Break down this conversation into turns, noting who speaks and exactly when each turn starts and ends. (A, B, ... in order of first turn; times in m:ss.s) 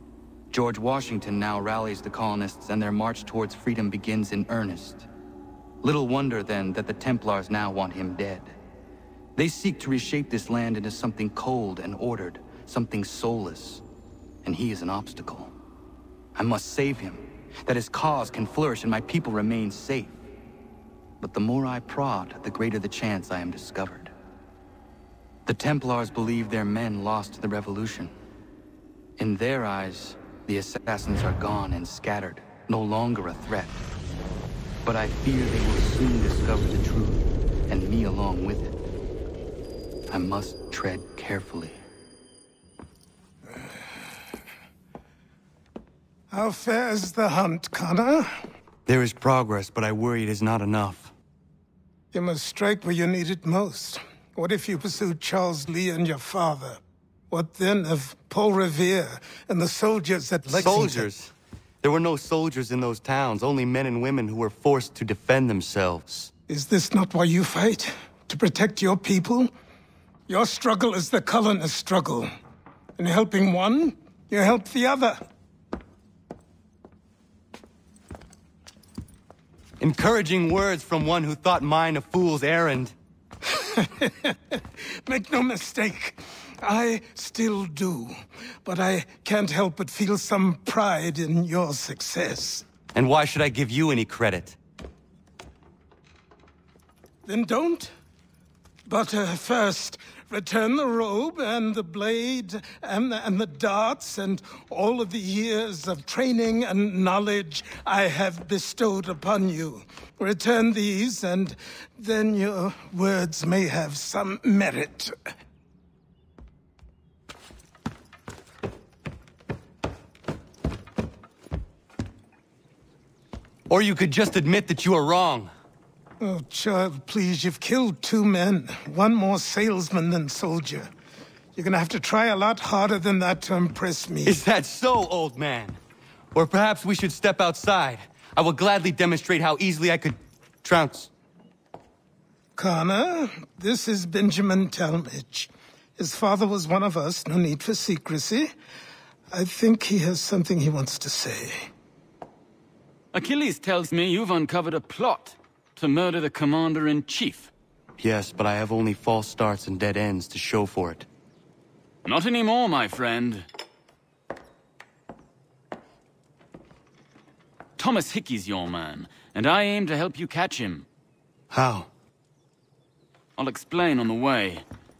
0:00.5-0:05.1 A
0:05.8-0:08.6 A
0:09.3-0:13.8 A
0:14.4-0:15.5 A
0:16.3-0:20.2 A
0:21.2-0:24.1 A
0:25.4-0:28.1 A
0:29.2-0:33.8 A
0:34.8-0:38.7 A
0:40.1-0:41.8 A
0:46.3-0:48.4 B
0:48.8-0:51.1 A
0:52.1-1:01.1 B
1:00.5-1:06.3 A
1:06.5-1:09.5 B
1:10.3-1:12.3 B
1:13.0-1:15.2 B
1:19.8-1:22.9 A
1:23.5-1:32.6 B
1:32.9-1:34.6 A
1:37.2-1:37.9 B
1:38.9-1:55.1 B
2:03.7-2:05.5 A
2:06.2-2:10.9 B
2:11.6-2:14.4 B
2:14.2-2:15.8 A
2:16.3-2:21.1 A
2:22.6-2:28.5 B
2:29.3-2:31.7 B
2:33.1-2:37.5 C
2:38.0-2:41.1 A
2:42.0-2:43.5 C
2:47.8-2:50.8 C
2:51.5-2:51.9 A
2:53.4-2:54.6 C